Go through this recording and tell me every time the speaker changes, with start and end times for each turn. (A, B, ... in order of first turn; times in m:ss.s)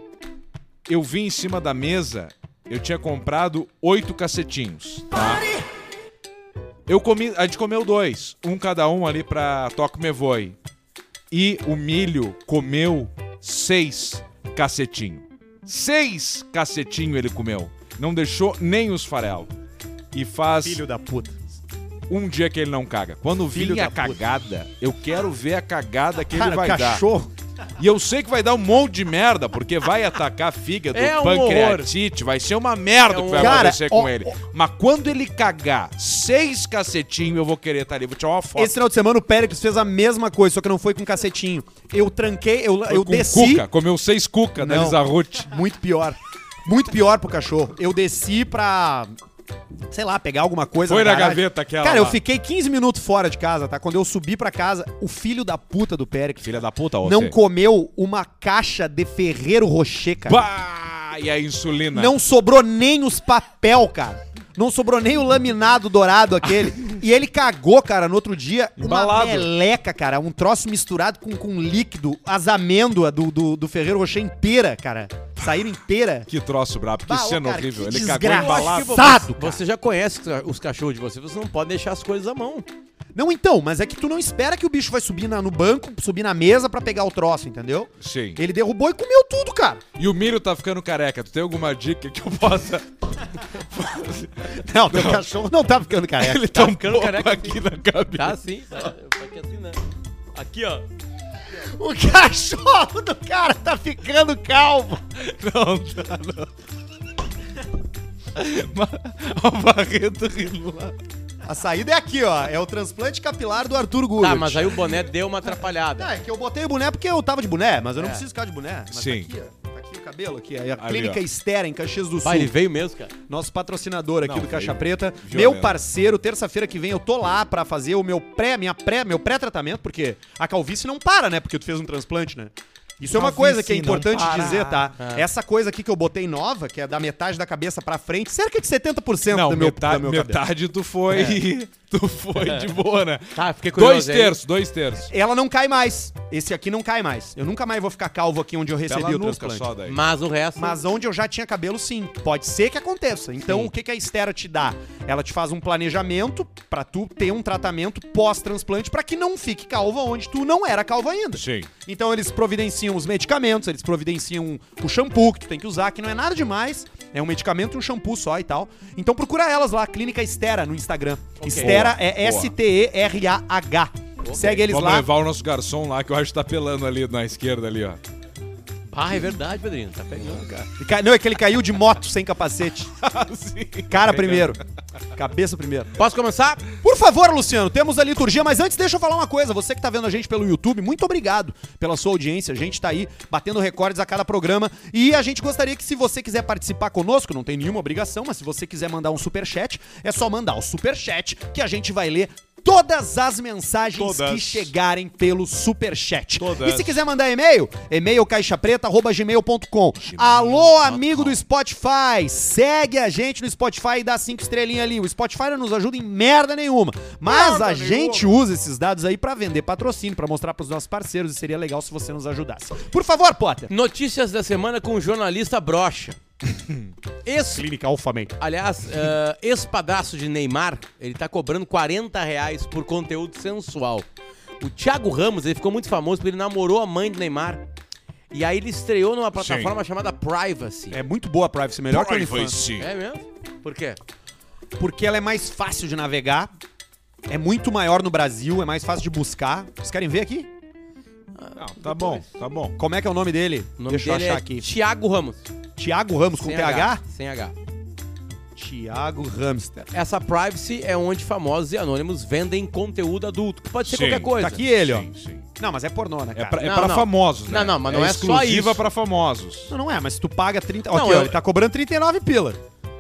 0:00.9-0:05.5 A
0:06.9-0:10.6 A
0:11.3-0:19.5 A
0:20.1-0:20.8 A
0:20.6-0:21.4 B
0:22.1-0:27.0 A
0:23.5-0:24.2 B
0:26.3-0:27.3 B
0:27.8-0:38.8 A
0:30.9-0:31.9 C
0:33.1-0:33.7 C
0:33.4-0:34.3 B
0:38.6-0:43.7 B
0:42.9-0:45.5 A
0:44.6-0:49.1 B
0:49.9-1:00.4 B
0:50.9-0:52.2 A
0:56.4-0:57.4 A
1:00.2-1:02.2 A
1:01.9-1:16.3 B
1:08.8-1:09.5 A
1:16.3-1:19.2 A
1:17.1-1:19.6 B
1:18.3-1:22.7 C
1:23.1-1:29.8 B
1:28.0-1:28.4 A
1:30.0-1:32.9 A
1:33.4-1:35.2 A
1:34.5-1:36.5 B
1:36.2-1:38.4 A
1:36.5-1:37.6 C
1:38.1-1:39.8 C
1:40.3-1:40.9 C
1:41.6-1:45.0 B
1:45.4-1:46.5 A
1:48.4-1:50.9 A
1:51.4-1:54.8 B
1:54.2-1:56.1 C
1:56.0-2:02.5 B
1:58.0-1:58.2 C
1:58.9-1:59.3 A
2:00.8-2:01.2 A
2:02.2-2:03.1 C
2:03.3-2:20.4 B
2:04.2-2:05.8 A
2:13.1-2:14.9 A
2:15.0-2:15.2 C
2:19.3-2:25.1 A
2:21.1-2:21.4 C
2:22.4-2:22.7 C
2:23.4-2:24.4 C
2:25.1-2:29.7 B
2:28.9-2:30.0 A
2:29.9-2:30.8 C
2:30.6-2:55.1 B
2:33.4-2:33.7 C
2:41.3-2:41.7 A
2:51.4-2:51.8 C
2:51.6-2:52.6 A
2:54.2-2:54.6 C
2:54.6-2:58.0 A
2:58.9-3:00.5 C
3:00.6-3:02.9 B
3:03.0-3:04.5 A
3:03.9-3:04.6 B
3:05.2-3:05.9 B
3:06.0-3:06.6 C
3:06.8-3:43.7 B
3:23.9-3:24.7 A
3:26.4-3:27.0 A
3:30.0-3:31.4 A
3:37.2-3:38.4 A
3:43.7-3:46.2 C
3:47.2-3:47.6 C
3:47.5-3:48.4 B
3:48.4-3:54.1 C
3:54.6-3:57.6 C
3:58.3-4:01.0 C
3:59.4-3:59.8 A
4:00.9-4:02.6 B
4:01.9-4:02.9 A
4:02.8-4:04.0 C
4:04.8-4:06.5 B
4:07.3-4:10.5 B
4:11.4-4:12.2 C
4:11.6-4:12.8 A
4:12.8-4:14.7 B
4:13.8-4:15.5 C
4:15.8-4:17.0 B
4:16.3-4:17.5 C
4:18.6-4:19.9 B
4:19.9-4:24.6 C
4:23.9-4:25.5 A
4:24.4-4:26.6 B
4:26.4-4:29.7 A
4:26.6-4:28.8 C
4:29.7-4:32.6 B
4:30.9-4:31.4 C